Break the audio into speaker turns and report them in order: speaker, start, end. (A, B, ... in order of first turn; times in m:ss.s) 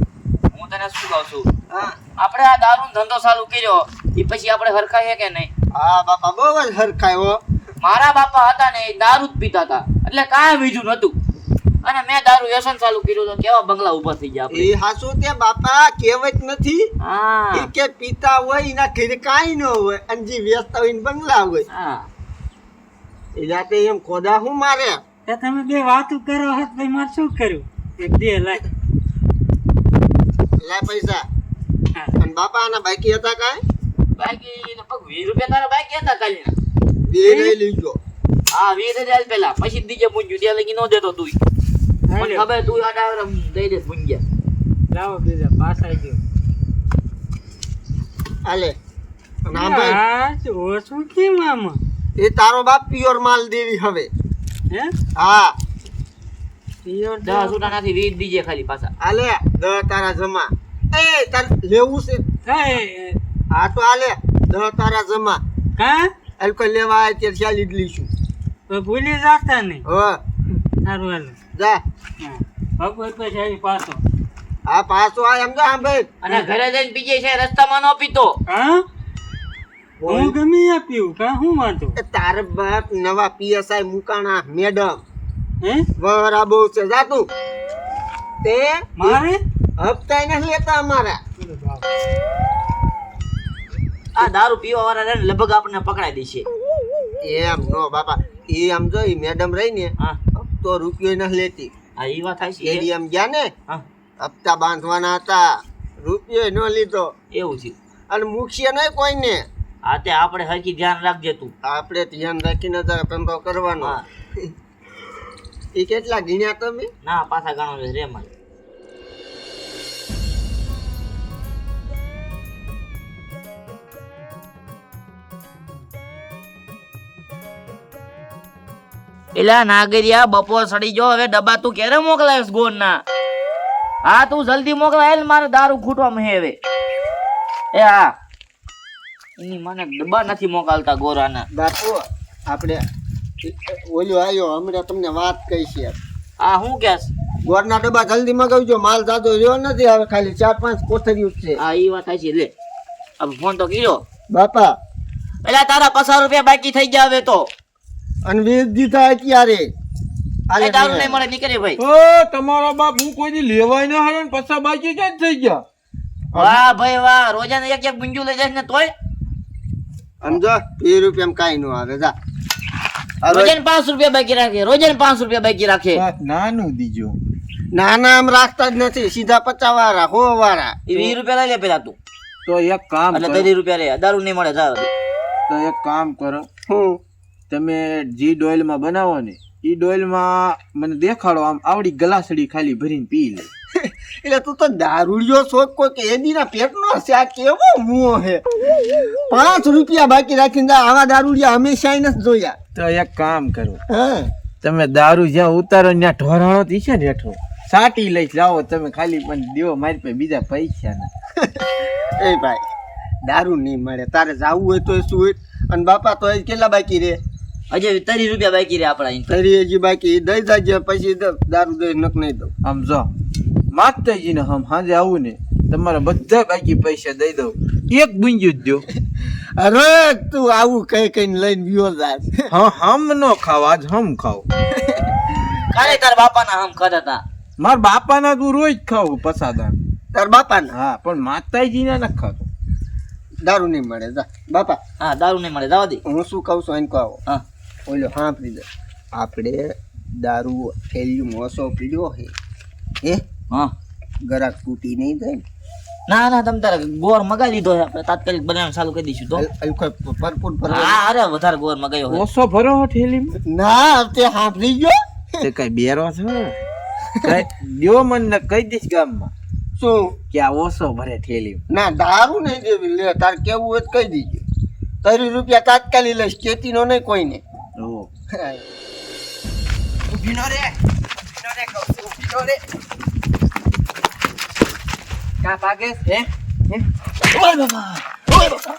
0:00.5-0:01.5 A
0:01.7-0:02.0 B
0:02.2-0:05.5 A
0:05.7-0:07.4 B
0:07.8-0:11.2 A
0:11.8-0:14.7 A
0:14.5-0:16.9 B
0:17.0-0:17.7 A
0:17.5-0:21.7 B
0:21.7-0:22.1 A
0:23.4-0:25.0 B
0:25.3-0:28.6 C
0:30.6-0:31.2 B
0:32.2-0:33.6 B
0:34.2-0:36.5 A
0:37.1-0:38.0 B
0:37.2-0:37.5 C
0:38.5-0:41.4 A
0:42.1-0:42.4 C
0:42.2-0:44.2 A
0:44.9-0:46.2 C
0:48.4-0:48.8 B
0:49.4-0:50.0 B
0:49.5-0:51.8 C
0:52.2-0:54.1 B
0:55.2-0:55.6 B
0:56.8-0:57.7 B
0:57.2-0:58.9 A
0:59.0-1:02.2 B
1:02.4-1:03.2 C
1:03.5-1:05.4 B
1:05.8-1:06.1 C
1:06.4-1:08.1 B
1:08.7-1:09.8 C
1:09.9-1:10.2 B
1:10.8-1:11.4 C
1:11.6-1:11.8 B
1:12.2-1:14.0 C
1:14.7-1:16.1 B
1:16.2-1:18.3 A
1:18.5-1:18.8 C
1:20.0-1:20.4 B
1:20.1-1:22.0 C
1:22.0-1:25.0 B
1:25.6-1:25.9 C
1:26.0-1:27.3 B
1:28.4-1:29.2 B
1:29.0-1:29.4 C
1:29.8-1:31.2 B
1:31.4-1:31.8 C
1:34.2-1:36.5 A
1:37.2-1:41.7 B
1:42.0-1:42.9 A
1:42.6-1:43.5 B
1:44.2-1:47.1 B
1:47.3-1:47.8 A
1:48.1-1:49.4 B
1:49.9-1:51.5 A
1:51.6-1:54.1 B
1:55.8-1:56.9 B
1:57.0-1:58.3 A
2:09.3-2:13.0 A
2:14.0-2:16.6 A
2:17.7-2:18.1 A
2:19.4-2:21.5 A
2:21.5-2:22.8 B
2:23.4-2:26.0 B
2:26.4-2:27.1 A
2:27.4-2:31.6 B
2:31.6-2:32.5 A
2:33.2-2:34.0 A
2:34.3-2:34.8 B
2:35.4-2:37.5 A
2:38.2-2:39.7 B
2:40.5-2:41.2 B
2:40.6-2:41.8 A
2:41.8-2:45.6 D
2:46.3-2:48.9 A
2:50.2-2:52.2 B
2:53.2-2:53.6 B
2:53.3-2:56.0 A
2:55.9-2:57.2 D
2:57.7-3:01.2 B
3:00.9-3:02.0 A
3:02.5-3:03.5 D
3:03.1-3:04.9 A
3:05.5-3:06.5 D
3:06.7-3:07.0 B
3:07.5-3:13.5 D
3:13.8-3:18.4 B
3:19.3-3:22.6 B
3:22.8-3:23.8 D
3:23.9-3:24.3 B
3:24.6-3:31.1 D
3:31.4-3:32.6 B
3:33.2-3:37.2 B
3:37.7-3:39.3 A
3:39.3-3:42.5 B
3:42.6-3:43.1 D
3:43.7-3:48.9 D
3:49.2-3:52.5 B
3:52.5-3:54.4 D
3:54.8-3:56.0 B
3:55.7-3:57.2 A
3:57.6-3:59.8 D
4:00.1-4:00.7 B
4:00.7-4:02.5 D
4:03.4-4:04.8 B
4:05.0-4:06.0 A
4:06.0-4:07.2 B
4:07.9-4:12.3 B
4:14.2-4:15.4 B
4:16.1-4:19.4 A
4:19.4-4:21.0 B
4:20.7-4:22.2 A
4:22.1-4:23.4 D
4:23.4-4:25.0 B
4:25.4-4:26.6 D
4:27.2-4:29.3 D
4:29.8-4:30.1 B
4:30.3-4:31.6 D
4:31.7-4:34.4 B
4:35.0-4:37.4 B
4:37.8-4:38.1 D
4:38.3-4:38.6 B
4:40.1-4:40.7 E
4:41.4-4:42.6 E
4:45.4-4:46.8 E
4:47.4-4:48.4 A